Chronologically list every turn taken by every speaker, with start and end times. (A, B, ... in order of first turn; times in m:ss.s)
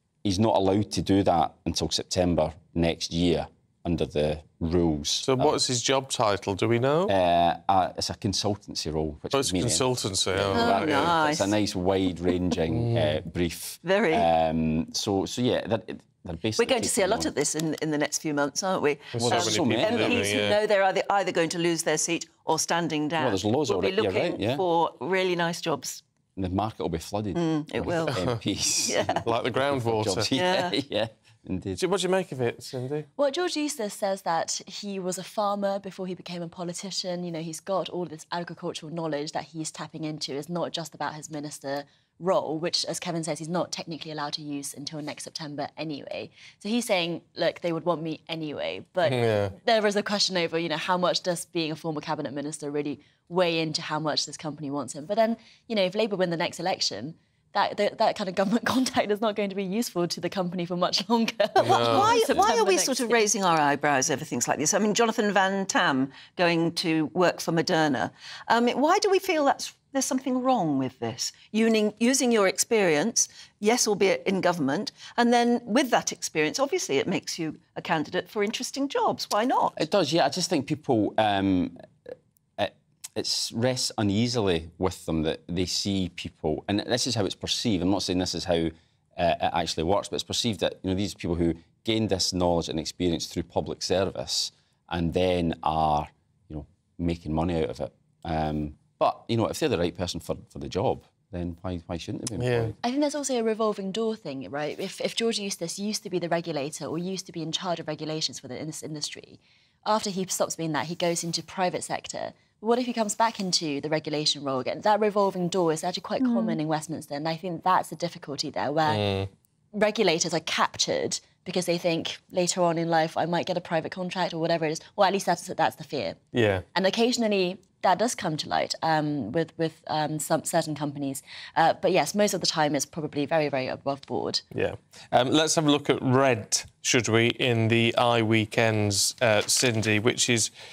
0:00.2-0:05.6 A
0:05.2-0:07.1 B
0:07.1-0:17.3 A
0:09.3-0:11.1 B
0:10.5-0:11.5 C
0:12.7-0:13.2 B
0:13.8-0:14.2 C
0:16.6-0:26.0 C
0:19.1-0:20.6 B
0:19.2-0:20.3 A
0:23.2-0:24.6 A
0:26.4-0:31.8 A
0:27.3-0:28.2 C
0:28.1-0:28.4 B
0:28.8-0:29.2 C
0:29.2-0:30.3 B
0:30.3-0:30.7 C
0:31.8-0:33.1 B
0:33.2-1:03.2 D
0:49.0-0:49.5 B
1:01.6-1:02.4 B
1:01.6-1:19.8 C
1:19.8-1:21.8 A
1:22.6-1:42.8 A
1:42.4-1:42.7 B
1:42.8-1:59.1 D
1:56.2-1:56.6 C
1:58.9-1:59.3 B
1:59.7-2:06.2 D
2:06.3-2:06.6 B
2:06.7-2:14.4 D
2:14.5-2:20.5 B